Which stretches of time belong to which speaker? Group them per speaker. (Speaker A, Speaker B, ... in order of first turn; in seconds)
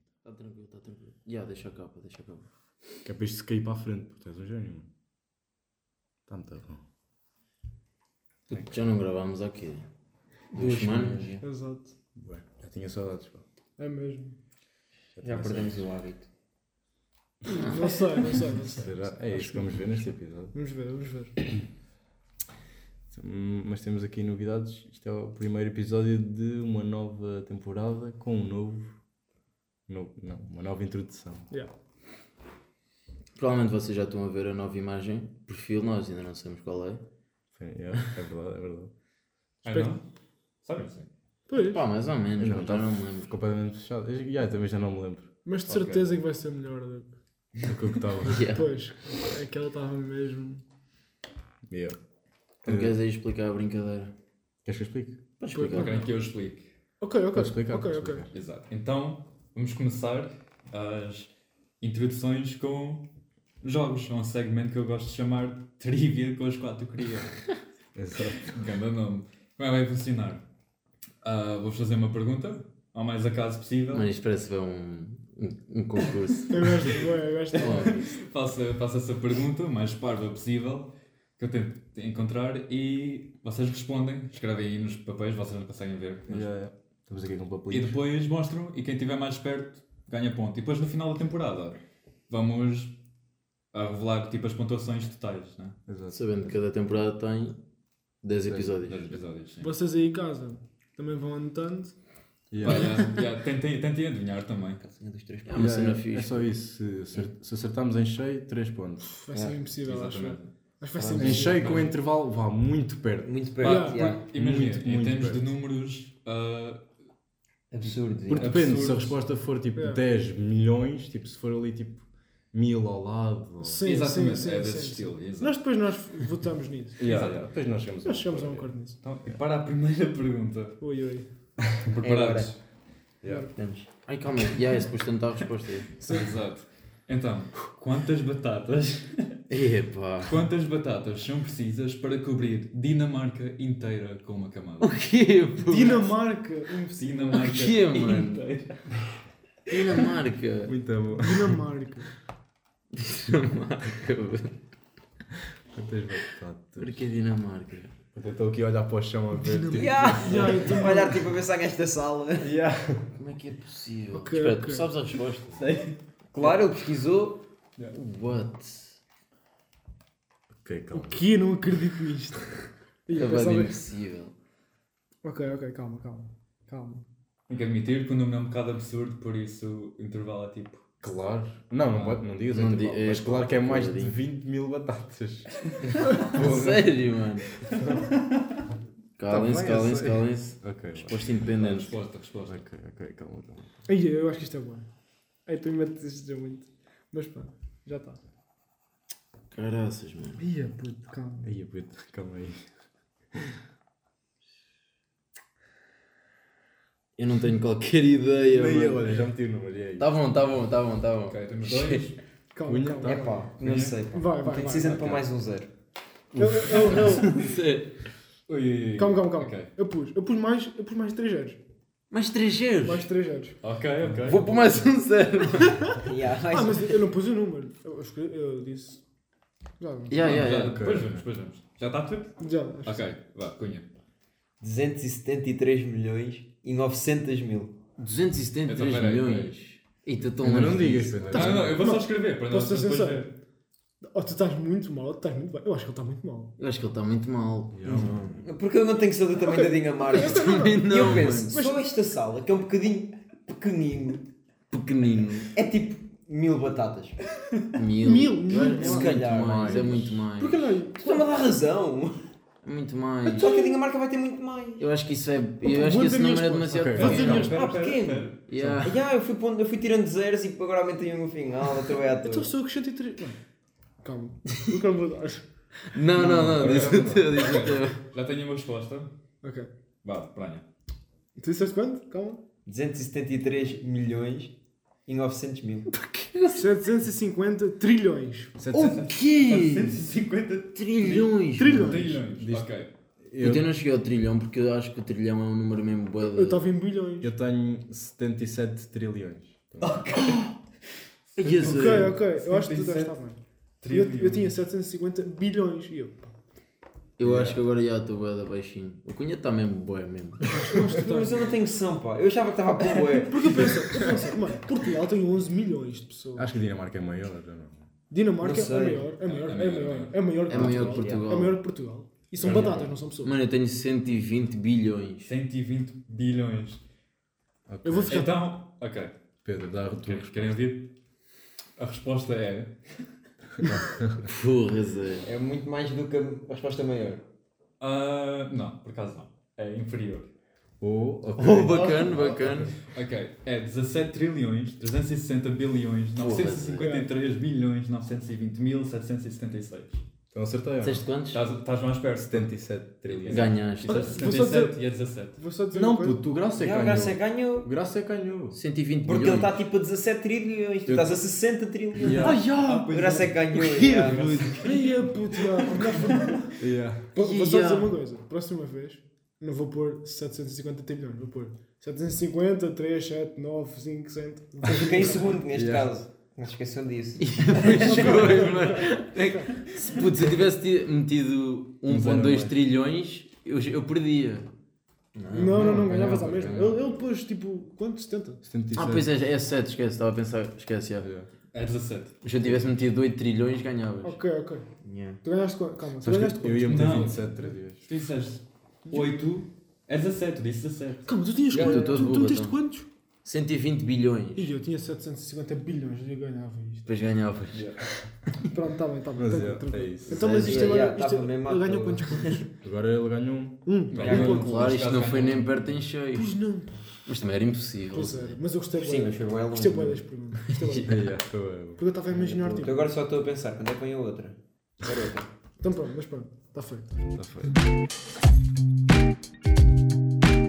Speaker A: 0.2-2.5, 8.5-9.9, 10.5-11.3, 17.5-18.4, 33.4-37.0, 41.5-43.3, 48.2-48.7, 52.6-54.1, 55.4-56.0, 73.9-77.0, 77.5-78.1, 96.1-97.6, 98.2-99.1, 105.5-106.5, 134.0-135.9, 139.5-140.5, 144.8-146.1, 147.3-148.5, 149.7-150.7, 152.9-154.6, 156.8-157.9, 163.2-165.6, 167.9-169.0, 173.1-174.3, 182.5-184.2, 186.2-187.6, 189.2-191.9, 199.5-200.4, 207.2-209.2, 210.0-212.1, 216.9-217.9, 222.1-223.1, 224.2-226.0, 230.1-230.8, 238.0-241.5, 246.6-248.1, 250.1-251.7, 254.7-255.5, 257.7-260.7, 262.6-263.6, 264.8-267.5, 268.5-269.0, 275.9-278.0, 285.9-286.7, 288.7-290.0, 290.8-292.1, 293.4-296.6, 301.4-302.2, 307.2-310.6, 320.5-321.6, 322.4-325.3, 334.2-335.2, 341.4-342.8, 346.1-346.9, 350.8-351.4, 353.3-354.5, 358.5-359.6, 362.1-362.9, 363.5-364.6, 367.1-368.0, 377.2-384.5, 385.1-386.6, 388.7-391.1, 392.2-394.2, 401.5-402.6, 403.2-404.5, 406.9-407.7, 410.1-410.9, 414.0-416.3, 417.1-418.4
Speaker B: 3.0-4.9, 6.3-6.8, 8.5-8.8, 12.1-13.4, 15.2-15.9, 18.7-20.5, 23.1-28.9, 29.9-31.5, 37.5-38.9, 42.4-45.3, 47.6-48.5, 51.7-52.0, 52.6-52.9, 54.6-55.4, 57.3-58.3, 67.9-68.5, 86.3-88.0, 95.9-96.2, 98.4-98.8, 102.5-103.1, 105.5-109.1, 111.1-113.3, 114.2-115.5, 118.3-123.8, 127.0-128.7, 131.6-132.2, 133.2-133.5, 150.7-151.6, 155.7-157.1, 158.1-160.8, 162.4-163.1, 165.6-166.5, 170.6-171.3, 181.0-188.0, 189.3-191.2, 192.4-193.8, 201.4-202.7, 208.5-210.1, 212.6-213.3, 224.0-224.6, 230.2-231.2, 240.3-241.8, 247.7-248.4, 259.0-260.1, 266.7-267.5, 268.6-268.8, 276.1-277.4, 288.6-289.0, 292.2-293.7, 297.2-300.1, 307.2-307.6, 316.3-317.9, 327.7-328.2, 329.4-330.6, 333.6-334.3, 340.8-342.5, 350.3-351.0, 352.2-353.6, 355.7-358.6, 360.8-361.2, 362.0-362.8, 366.6-367.1, 375.4-376.0, 381.9-382.5, 385.4-387.0, 388.4-389.1, 391.0-391.3, 396.0-397.9, 401.5-402.0, 409.1-410.2, 412.6-413.6, 420.8-421.8, 427.1-427.6
Speaker C: 10.5-11.4, 15.2-16.3, 104.8-105.8, 109.3-109.6, 110.9-111.9, 113.2-114.2, 117.7-118.8, 132.0-132.6, 133.5-133.9, 159.7-162.5, 166.3-167.4, 213.0-215.7, 225.9-226.9, 234.6-237.8, 247.8-254.3, 255.5-257.2, 258.5-260.1, 261.0-262.2, 263.2-264.9, 267.3-272.5, 282.6-285.9, 311.0-313.8, 318.4-319.1, 335.2-337.2, 356.6-357.7, 359.1-364.6, 374.6-378.6, 394.8-395.2, 410.2-412.5, 414.0-414.4, 418.7-420.0, 422.1-425.3
Speaker D: 11.4-11.9, 13.8-14.4, 17.5-20.0, 20.5-21.4, 39.6-39.9, 41.5-41.8, 45.4-47.2, 48.5-50.6, 55.5-56.1, 57.0-58.3, 76.5-78.0, 99.6-101.9, 109.0-111.9, 113.6-114.2, 119.7-120.0, 123.6-127.1, 128.0-129.0, 130.8-131.3, 136.0-136.3, 145.6-147.5, 151.1-152.1, 159.3-161.2, 164.1-164.9, 170.9-172.5, 173.1-173.8, 175.2-177.1, 193.9-194.9, 195.4-198.2, 200.4-201.5, 212.5-213.4, 214.1-215.0, 216.3-217.5, 218.9-221.6, 222.8-223.6, 226.5-229.0, 229.8-230.2, 232.4-233.0, 241.3-243.3, 244.0-246.6, 249.4-251.8, 258.0-259.1, 260.4-261.3, 265.6-267.6, 272.2-273.4, 274.0-275.4, 279.4-279.7, 281.4-282.4, 286.6-288.6, 291.6-292.2, 296.2-297.3, 301.4-306.3, 310.5-311.5, 312.9-316.5, 318.1-323.3, 327.8-328.3, 346.8-347.1, 353.9-354.8, 355.4-356.2, 364.6-366.6, 367.1-375.4, 377.5-379.7, 385.3-388.4, 394.0-394.7, 395.2-397.1, 398.9-399.1, 401.1-402.9, 404.4-406.9, 408.5-412.5, 413.6-414.7, 416.1-417.0, 417.9-421.1, 421.8-422.9, 425.6-427.0
Speaker E: 39.6-40.0, 40.6-41.1, 45.7-46.1, 55.7-56.7, 58.3-63.1, 63.6-67.4, 68.4-70.4, 71.2-74.1, 77.5-86.5, 87.7-93.0, 93.7-95.8, 98.8-99.7, 102.6-104.8, 109.8-110.5, 111.6-111.8, 113.6-116.8, 118.3-119.2, 123.8-125.6, 127.0-127.4, 129.0-130.8, 132.0-132.5, 136.0-139.5, 140.2-145.0, 146.9-149.0, 149.7-150.1, 177.5-180.8, 181.9-182.2, 187.8-188.6, 191.2-192.6, 211.3-212.2, 213.6-214.0, 214.5-215.2, 218.5-219.7, 223.6-224.6, 230.2-233.9, 238.6-239.5, 241.3-243.3, 266.9-268.4, 277.3-279.1, 280.0-280.6, 288.7-292.9, 299.8-300.6, 301.3-303.1, 303.8-304.6, 319.2-320.3, 322.4-322.8, 325.2-326.8, 328.1-329.1, 330.0-330.9, 331.8-333.1, 337.8-340.3, 342.9-350.1, 351.3-355.4, 362.1-366.5, 391.5-392.2, 396.6-397.3, 397.8-401.1, 407.5-407.8, 413.9-415.7, 420.5-420.9